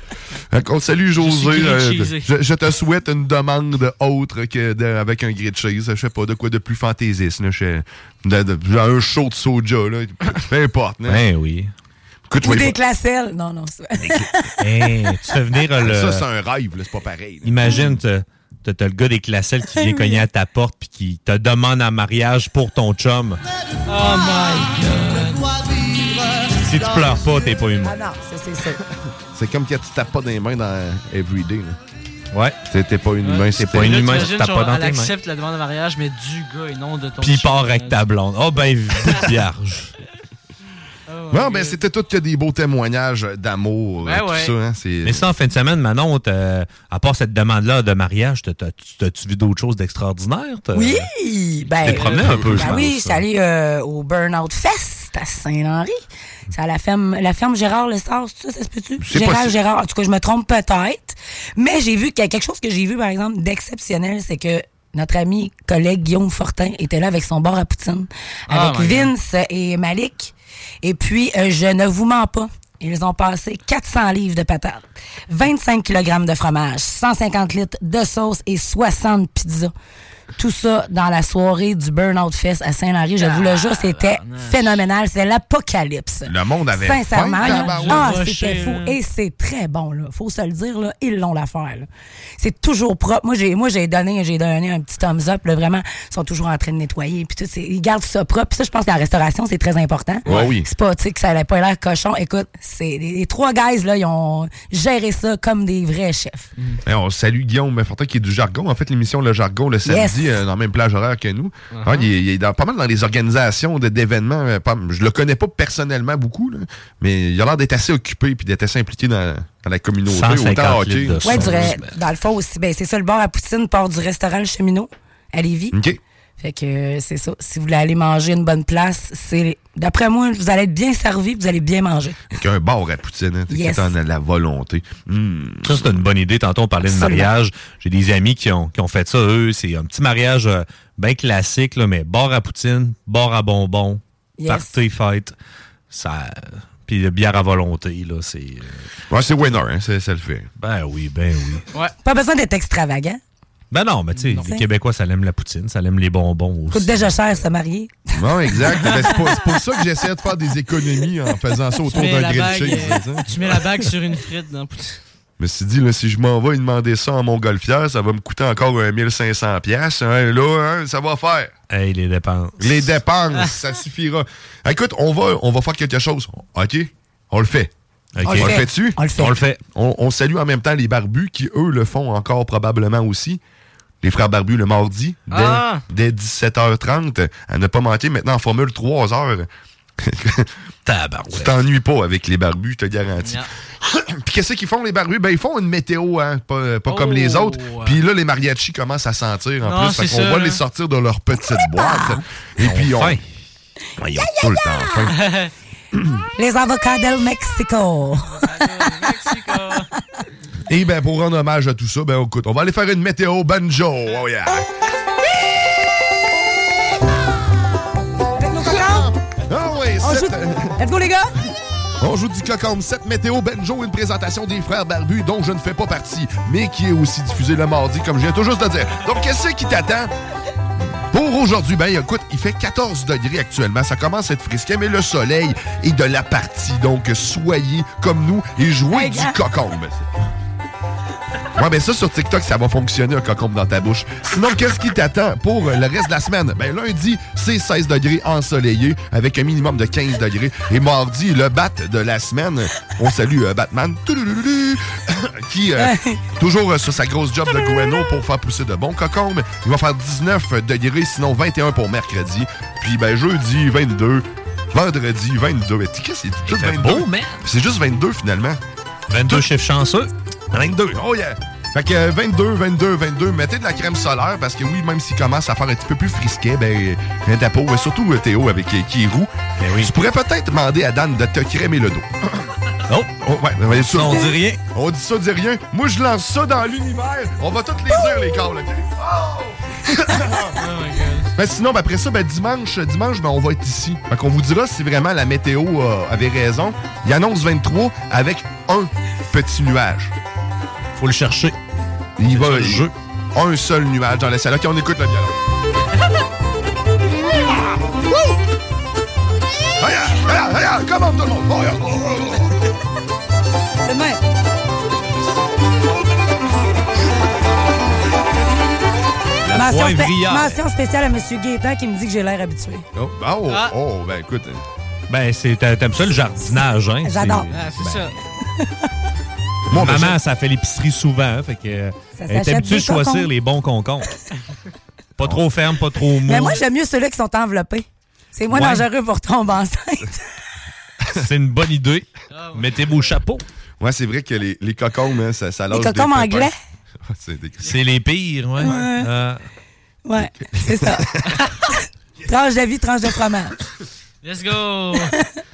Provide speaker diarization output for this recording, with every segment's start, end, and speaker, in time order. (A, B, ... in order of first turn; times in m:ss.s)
0:00.5-0:11.2 A
0:01.2-0:02.3 B
0:11.1-0:11.7 C
0:12.3-0:12.8 A
0:12.4-0:14.6 D
0:14.6-0:16.2 C
0:15.8-0:18.0 A
0:17.4-0:23.4 C
0:19.8-0:20.2 D
0:23.9-0:25.5 B
0:26.6-0:28.0 C
0:27.8-0:28.8 D
0:29.3-0:31.8 A
0:32.3-0:32.6 C
0:32.7-0:34.3 A
0:33.2-0:38.0 B
0:33.5-0:35.1 C
0:37.2-0:39.9 C
0:41.1-0:41.8 B
0:41.3-0:45.3 A
0:44.0-0:44.6 B
0:45.0-0:51.1 C
0:50.7-0:56.0 D
0:51.8-0:53.2 C
0:51.9-0:52.8 A
0:56.5-1:19.7 D
0:59.0-0:59.6 A
1:08.5-1:09.1 B
1:20.4-1:31.9 D
1:23.2-1:24.8 B
1:26.3-1:28.2 A
1:27.4-1:29.0 B
1:32.4-1:46.5 D
1:40.3-1:40.7 A
1:46.9-2:01.8 A
1:49.9-1:50.3 D
1:51.7-1:52.1 B
2:00.1-2:02.0 C
2:01.2-2:05.8 D
2:05.7-2:06.0 A
2:06.4-2:12.2 D
2:12.3-2:16.0 A
2:13.5-2:13.9 D
2:15.6-2:25.3 C
2:16.8-2:17.3 D
2:24.4-2:24.8 D
2:25.9-2:28.9 C
2:29.1-2:30.5 A
2:30.6-2:31.7 C
2:32.0-2:33.2 D
2:33.7-2:37.4 C
2:34.3-2:34.6 D
2:36.7-2:38.1 D
2:38.2-2:43.3 A
2:38.8-2:39.1 B
2:41.9-2:45.0 B
2:45.4-2:51.5 A
2:51.7-2:52.9 C
2:52.6-2:57.7 A
2:58.2-2:58.6 C
2:58.2-2:59.4 D
2:58.3-2:59.0 A
2:59.2-2:59.6 C
2:59.7-3:03.4 A
3:04.0-3:09.5 A
3:05.3-3:05.8 B
3:10.0-3:10.5 A
3:10.9-3:11.6 C
3:11.3-3:23.2 A
3:13.2-3:13.5 B
3:16.9-3:18.0 B
3:19.6-3:20.6 B
3:21.8-3:22.2 D
3:22.6-3:23.2 C
3:24.0-3:25.2 A
3:24.2-3:25.1 D
3:25.1-3:25.5 B
3:26.4-3:28.4 D
3:28.3-3:29.9 B
3:30.7-3:34.7 A
3:38.4-3:39.1 D
3:38.9-3:40.8 A
3:40.0-3:41.3 D
3:42.0-3:50.1 A
3:51.1-4:00.1 A
3:58.9-3:59.4 D
4:01.6-4:28.6 A
4:15.8-4:16.2 D
4:26.5-4:27.4 C
4:29.1-4:30.1 C
4:30.5-4:42.4 A
4:39.6-4:39.9 C
4:42.9-4:44.6 C
4:43.2-4:50.6 A
4:50.6-4:51.3 B
4:51.4-5:00.1 A
5:01.0-5:01.6 C
5:02.2-5:05.4 A
5:02.2-5:02.9 C
5:09.8-5:12.5 A
5:13.8-5:14.2 D
5:19.5-5:20.6 C
5:19.6-5:22.8 D
5:22.9-5:24.6 A
5:23.5-5:23.7 B
5:25.1-5:28.0 C
5:26.4-5:27.5 D
5:27.5-5:28.2 B
5:29.7-5:30.2 A
5:29.7-5:34.1 C
5:32.2-5:33.3 D
5:35.2-5:36.6 C
5:36.3-5:40.2 D
5:38.5-5:38.9 C
5:41.0-5:41.3 A
5:41.2-5:43.4 C
5:42.3-5:43.2 B
5:43.8-5:46.5 A
5:45.7-5:46.5 D
5:47.0-5:47.8 A
5:47.6-5:49.4 C
5:48.6-5:49.1 D
5:50.1-5:51.1 D
5:50.5-5:51.4 A
5:52.3-5:53.6 D
5:54.2-5:55.1 B